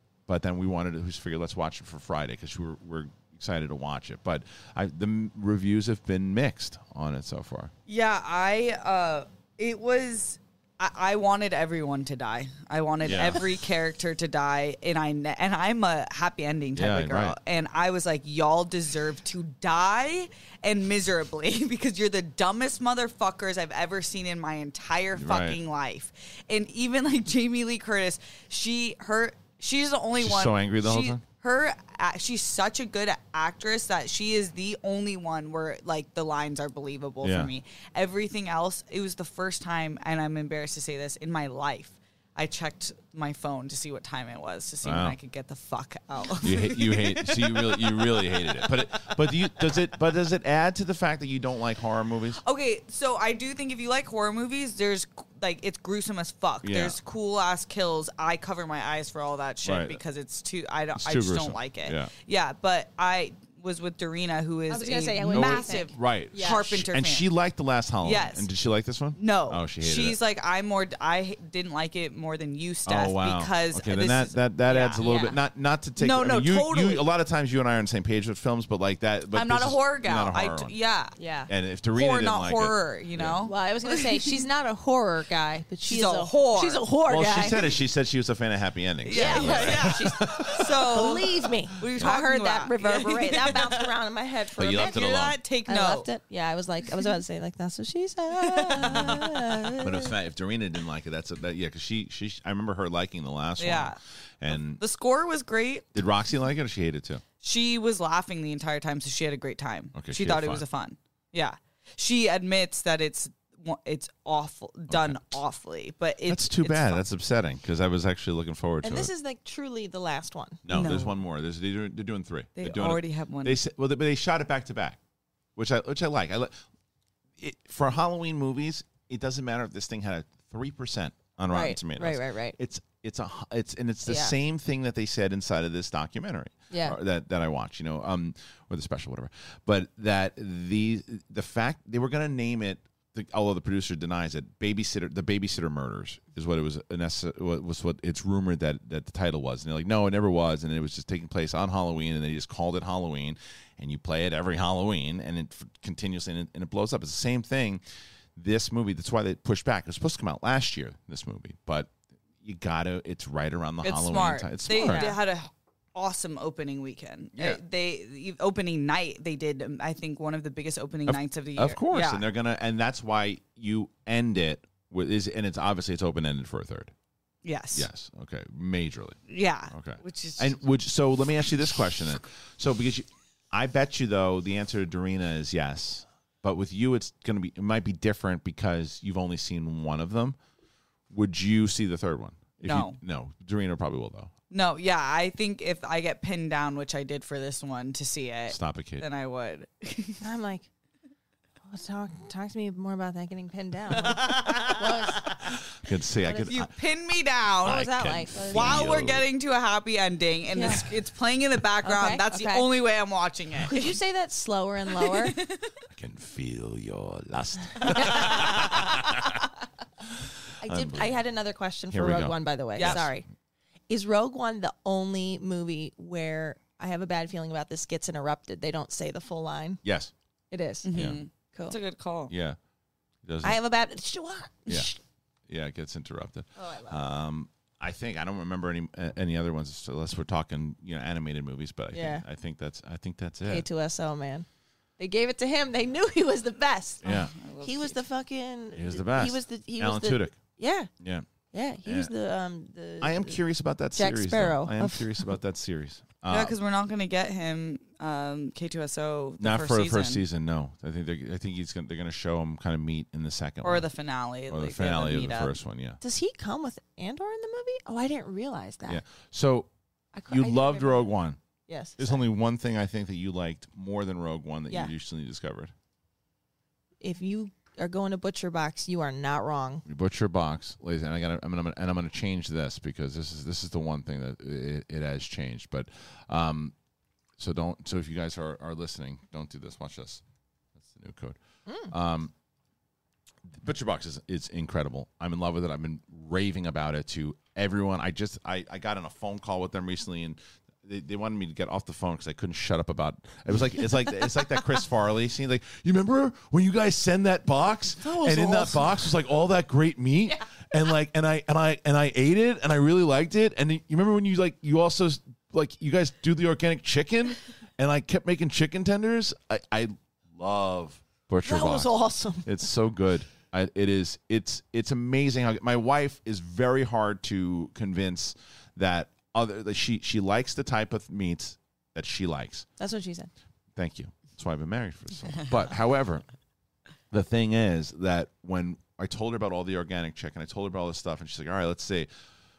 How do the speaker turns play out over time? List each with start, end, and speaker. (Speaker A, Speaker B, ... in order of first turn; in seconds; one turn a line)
Speaker A: 0.3-7.7
Speaker B: 7.9-49.1
Speaker A: 13.0-13.4
Speaker A: 16.7-17.4
Speaker A: 25.1-25.6
Speaker A: 30.2-31.2
Speaker A: 37.2-37.5
Speaker A: 44.8-45.2
Speaker A: 46.4-52.4
Speaker B: 52.4-67.3
Speaker A: 56.6-57.0
Speaker A: 59.6-60.0
Speaker A: 61.0-62.1
Speaker C: 64.7-66.6
Speaker A: 65.3-70.2
Speaker B: 68.0-68.5
Speaker B: 69.2-75.3
Speaker A: 72.8-80.7
Speaker C: 75.0-75.3
Speaker B: 76.0-77.0
Speaker B: 79.3-81.2
Speaker C: 81.2-81.5
Speaker A: 81.5-83.4
Speaker B: 81.9-84.4
Speaker C: 83.4-87.6
Speaker B: 85.8-86.8
Speaker A: 87.0-91.2
Speaker B: 89.0-93.9
Speaker C: 89.1-95.0
Speaker A: 94.6-95.4
Speaker B: 94.7-96.1
Speaker C: 95.7-100.1
Speaker B: 98.4-99.7
Speaker A: 98.8-99.2
Speaker A: 99.8-104.8
Speaker B: 103.6-104.0
Speaker B: 104.5-106.0
Speaker A: 105.9-107.2
Speaker B: 107.4-117.0
Speaker A: 109.9-110.6
Speaker A: 114.9-115.2
Speaker A: 116.3-119.1
Speaker C: 118.8-120.6
Speaker A: 120.6-125.0
Speaker B: 120.7-121.1
Speaker B: 122.6-123.6
Speaker A: 125.5-126.6
Speaker A: 127.4-157.8
Speaker C: 131.5-132.6
Speaker C: 134.1-134.3
Speaker C: 136.7-137.0
Speaker A: 158.3-161.9
Speaker A: 162.4-165.1
Speaker B: 163.8-172.2
Speaker C: 164.7-165.2
Speaker A: 167.3-167.6
Speaker A: 171.1-176.9
Speaker B: 177.4-177.9
Speaker A: 177.7-179.2
Speaker B: 179.3-180.6
Speaker A: 179.7-190.4
Speaker A: 191.1-194.3
Speaker B: 192.6-193.0
Speaker B: 194.5-200.2
Speaker A: 198.5-199.0
Speaker C: 200.2-200.7
Speaker C: 201.6-205.4
Speaker B: 204.0-204.8
Speaker A: 205.4-206.7
Speaker B: 206.3-207.9
Speaker A: 207.6-209.2
Speaker C: 207.6-208.9
Speaker B: 208.4-213.9
Speaker C: 210.5-210.8
Speaker C: 211.8-212.7
Speaker C: 213.7-215.4
Speaker B: 215.0-215.7
Speaker A: 215.9-219.4
Speaker C: 217.9-218.7
Speaker A: 220.1-221.2
Speaker C: 220.6-223.2
Speaker A: 221.9-223.2
Speaker B: 222.8-223.0
Speaker C: 223.9-229.8
Speaker A: 229.8-230.1
Speaker C: 230.5-230.9
Speaker B: 230.8-232.3
Speaker A: 230.9-231.2
Speaker A: 232.3-232.6
Speaker A: 233.2-233.6
Speaker C: 233.4-235.0
Speaker A: 235.5-243.7
Speaker C: 236.6-237.0
Speaker C: 241.9-242.2
Speaker C: 243.4-244.4
Speaker C: 245.0-250.9
Speaker A: 247.0-247.3
Speaker B: 247.1-248.0
Speaker A: 248.8-250.4
Speaker A: 251.0-251.3
Speaker C: 251.5-253.4
Speaker A: 251.8-252.1
Speaker A: 253.0-256.5
Speaker C: 253.9-255.3
Speaker B: 256.3-260.2
Speaker A: 259.4-263.9
Speaker B: 263.6-265.5
Speaker A: 264.5-266.0
Speaker C: 266.0-269.0
Speaker A: 268.9-269.7
Speaker C: 270.1-271.1
Speaker A: 270.3-271.4
Speaker C: 271.7-272.2
Speaker A: 272.0-275.7
Speaker C: 277.0-279.8
Speaker A: 279.8-286.7
Speaker A: 287.4-290.2
Speaker A: 290.8-292.3
Speaker C: 291.7-291.9
Speaker A: 293.5-332.7
Speaker C: 308.0-309.0
Speaker C: 321.4-322.5
Speaker C: 332.8-333.3
Speaker A: 333.8-336.2
Speaker A: 337.1-342.1